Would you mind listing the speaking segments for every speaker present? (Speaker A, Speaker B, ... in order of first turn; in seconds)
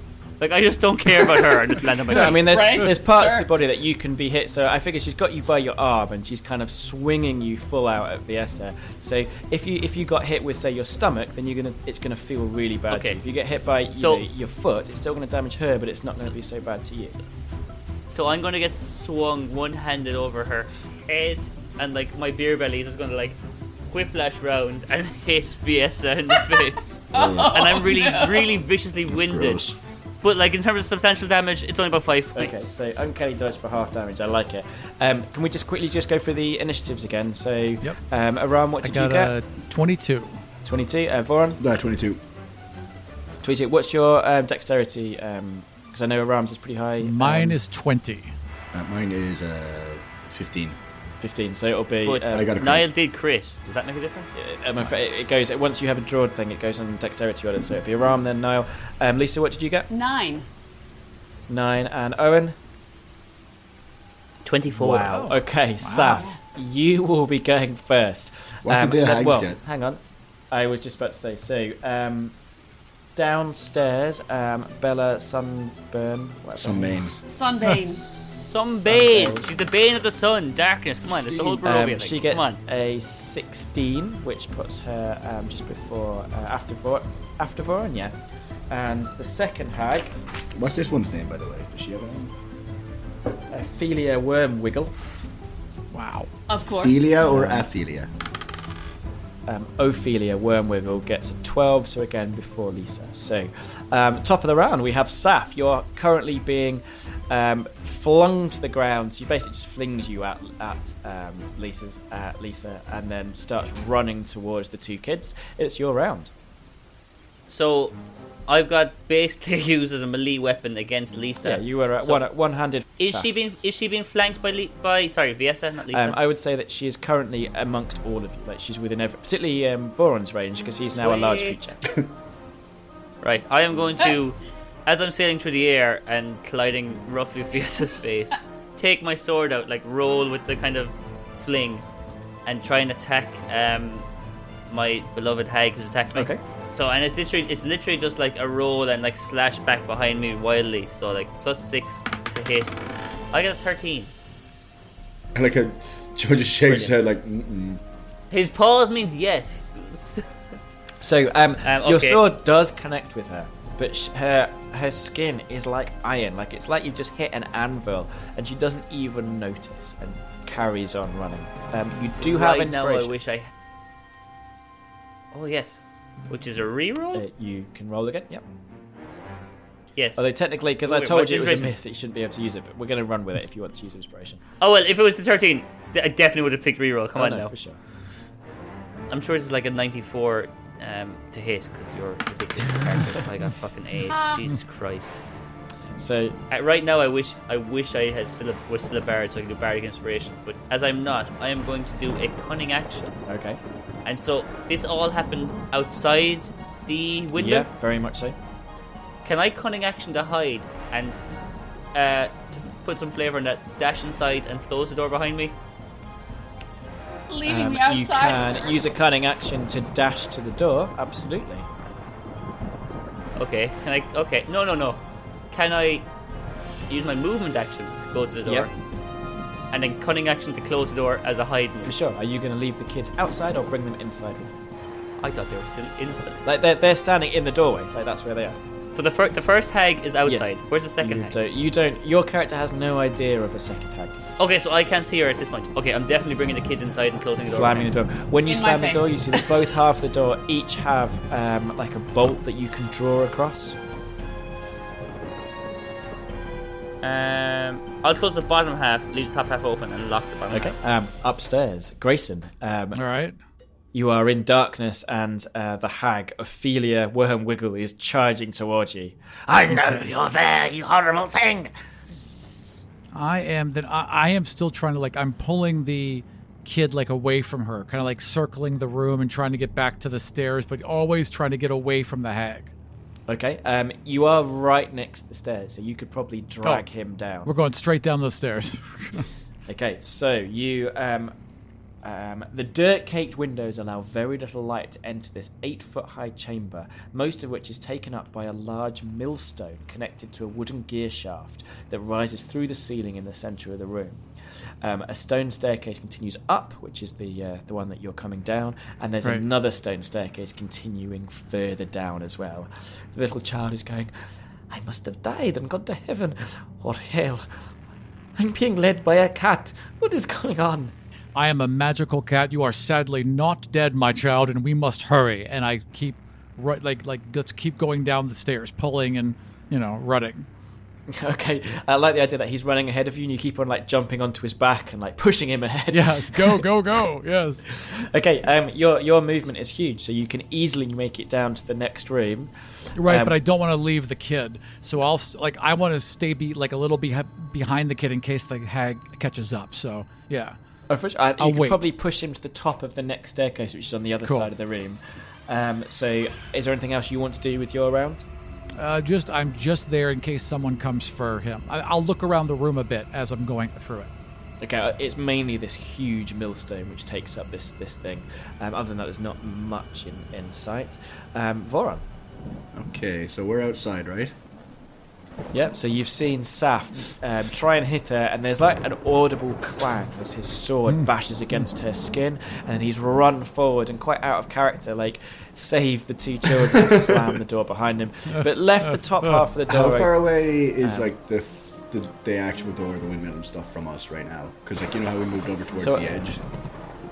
Speaker A: 0.4-2.6, 12.9-13.2, 13.9-14.2, 18.1-23.4, 23.9-29.6, 30.2-32.7, 52.0-54.3, 64.4-65.2, 78.0-82.6, 117.5-118.0, 118.5-122.3, 123.0-126.2, 131.0-131.6, 133.2-141.8, 142.4-144.1, 144.7-152.8, 153.3-154.1, 158.3-160.3, 161.6-162.2, 172.2-173.5, 175.3-177.2, 179.9-180.2, 180.8-181.7, 184.6-187.5, 189.1-195.2, 196.5-203.2, 204.1-207.7, 209.2-211.2, 211.9-215.6, 223.4-226.1, 226.9-228.7, 229.7-231.9, 235.2-236.4, 238.9-241.4, 244.4-247.9, 257.0-260.8
Speaker B: 2.1-17.2, 32.4-39.3, 40.6-41.6, 43.4-47.6, 51.2-52.5, 54.4-59.9, 61.5-62.5, 64.7-72.3, 73.2-77.0, 78.8-79.5, 81.2-88.1, 88.7-90.1, 93.5-94.9, 97.2-97.7, 99.5-116.3, 121.4-123.3, 125.9-131.8, 146.1-146.4, 161.0-173.1, 177.1-178.4, 180.2-184.4, 187.1-187.8, 196.0-196.4, 203.3-203.6, 207.4-208.4, 217.4-221.7, 231.8-234.6, 236.4-238.6, 240.2-244.2, 247.4-253.8, 260.5-263.0, 263.9-269.2, 283.3-287.5, 289.7-291.3, 292.0-304.2, 304.8-314.1, 314.7-317.4, 318.4-320.9, 331.1-336.8, 337.7-343.4, 350.9-358.2, 364.6-372.0, 375.5-391.1, 395.8-396.1
Speaker C: 2.3-3.5, 26.4-28.6, 59.9-60.5, 77.3-78.0, 96.5-97.1, 194.1-194.4, 217.3-218.8, 248.5-249.5
Speaker D: 27.1-27.6, 29.1-29.8, 41.6-42.2, 48.7-50.8, 52.3-52.9, 68.6-69.6, 76.6-77.2, 90.5-92.3, 96.7-98.1, 155.3-157.8, 372.7-374.3, 386.8-387.2, 389.7-396.4
Speaker E: 38.8-40.4, 47.0-48.3, 54.8-55.1, 65.1-66.3, 95.9-96.3, 262.9-263.4, 273.1-282.7, 287.4-289.3, 321.4-330.5, 335.9-337.7, 342.9-350.6, 351.4-351.9, 358.8-364.1
Speaker F: 269.5-271.7